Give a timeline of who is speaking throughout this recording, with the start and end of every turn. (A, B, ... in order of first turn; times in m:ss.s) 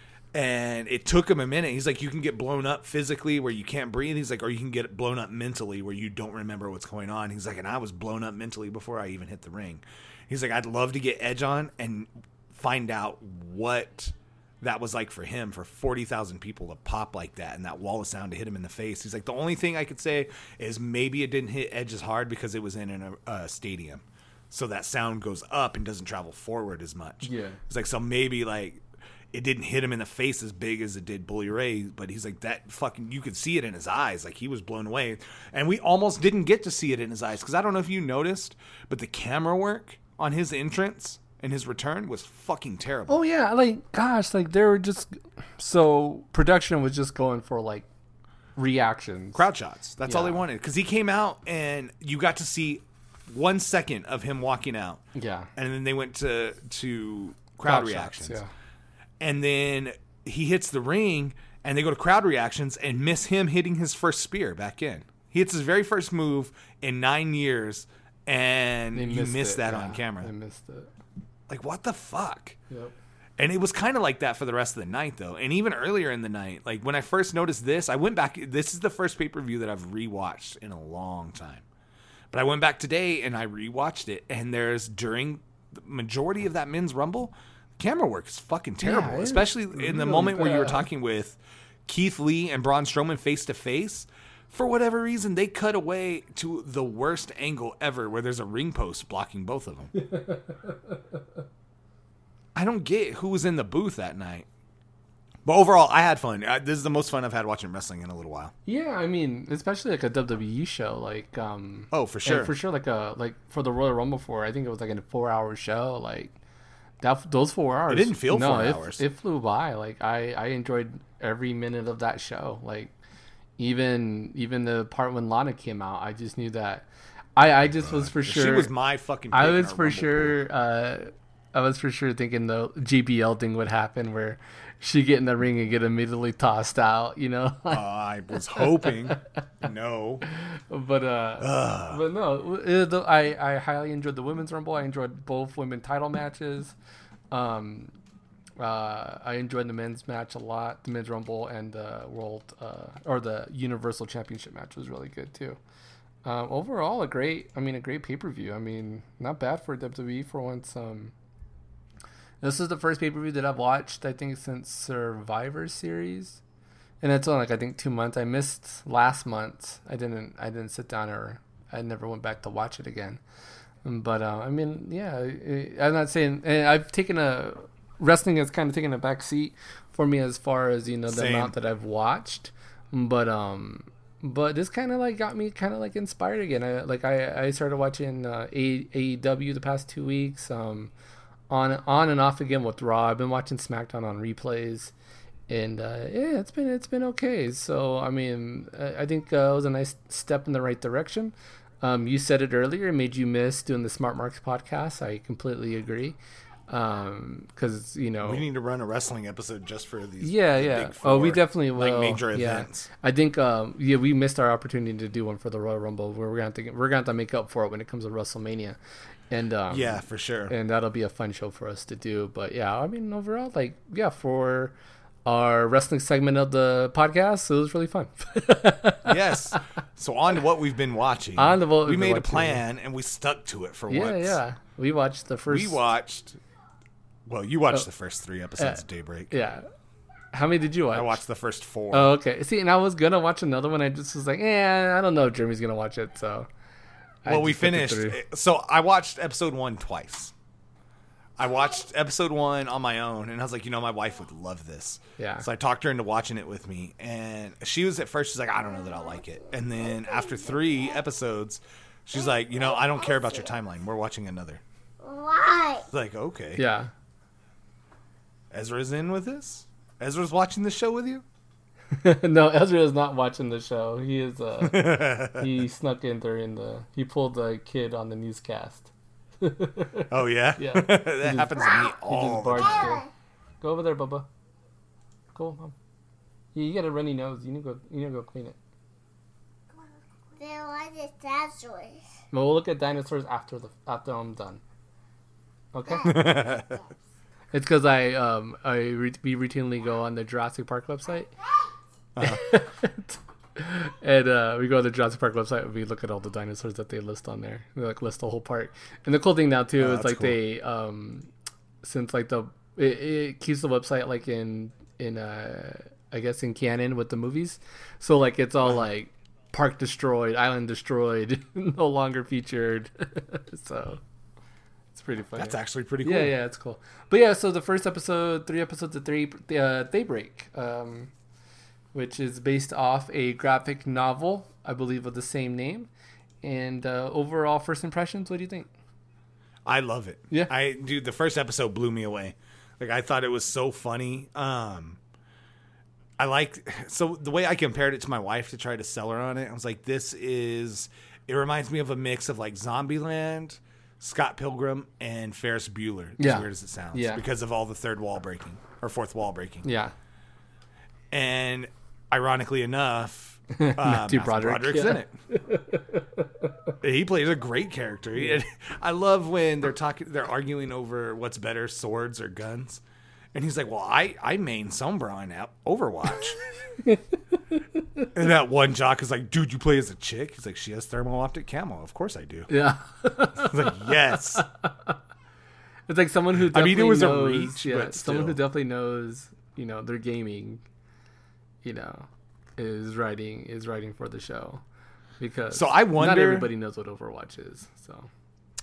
0:00.3-0:43.2 A
0:27.2-0:27.6 B
0:43.1-0:47.9 B
0:48.6-0:49.4 B
0:49.3-0:55.0 A
0:50.1-0:50.4 B
0:55.2-0:55.5 B
0:55.6-0:58.4 A
0:57.6-0:58.5 B
0:59.2-1:10.3 A
1:08.9-1:10.9 B
1:11.5-1:12.6 A
1:13.4-1:21.6 A
1:22.3-1:39.9 A
1:28.8-1:30.8 B
1:39.9-1:41.2 B
1:42.6-1:44.5 A
1:45.4-1:48.5 A
1:48.7-1:56.4 B
1:51.9-1:52.5 A
1:57.0-2:02.9 B
1:57.9-1:59.0 A
2:03.6-2:08.7 B
2:07.8-2:10.4 A
2:09.3-2:17.8 B
2:17.7-2:20.2 A
2:18.6-2:18.9 B
2:20.3-2:26.8 B
2:21.4-2:22.0 A
2:27.3-2:27.9 B
2:28.6-2:35.6 B
2:36.2-2:41.1 B
2:42.4-2:46.4 B
2:47.0-2:53.2 B
2:53.8-3:10.9 B
3:01.1-3:01.6 A
3:11.5-3:14.9 B
3:15.5-3:26.2 B
3:26.7-3:28.4 B
3:28.2-3:32.9 A
3:30.2-3:38.8 B
3:39.3-3:49.6 B
3:39.7-3:40.5 A
3:49.0-3:54.4 A
3:51.4-3:52.6 B
3:53.9-3:55.8 B
3:55.5-3:56.4 A
3:57.3-3:59.4 A
3:58.6-3:59.6 B
4:00.3-4:01.2 B
4:00.9-4:02.2 A
4:01.9-4:06.5 B
4:07.2-4:08.2 B
4:07.3-4:10.3 A
4:11.4-4:24.6 A
4:15.2-4:15.5 B
4:22.4-4:23.5 C
4:25.0-4:25.9 C
4:25.9-4:26.6 A
4:26.6-4:26.9 B
4:28.5-4:31.2 A
4:31.9-4:43.0 B
4:34.6-4:35.5 A
4:40.1-4:43.0 A
4:41.5-4:41.9 C
4:42.6-4:43.1 C
4:43.6-4:44.3 B
4:45.3-4:45.8 B
4:46.5-4:48.6 B
4:50.4-4:52.0 C
4:52.3-4:54.6 B
4:55.7-4:56.4 B
4:55.9-4:56.8 C
4:56.0-4:56.8 A
4:57.5-5:01.3 B
5:02.2-5:02.4 A
5:02.2-5:11.3 B
5:09.8-5:10.4 A
5:11.8-5:24.0 B
5:24.9-5:31.1 B
5:25.4-5:26.4 A
5:31.9-5:35.9 B
5:36.4-5:38.7 B
5:39.6-5:45.0 A
5:46.2-5:59.7 A
5:56.2-5:57.2 B
5:59.6-5:59.9 B
6:01.1-6:05.2 A
6:03.5-6:06.7 B
6:06.8-6:12.8 A
6:13.3-6:16.4 A
6:16.7-6:18.1 B
6:18.1-6:22.5 A
6:22.5-6:25.0 B
6:23.4-6:24.5 A
6:25.9-6:30.6 B
6:26.3-6:28.4 A
6:31.6-6:34.6 B
6:35.2-6:38.1 B
6:35.5-6:36.5 A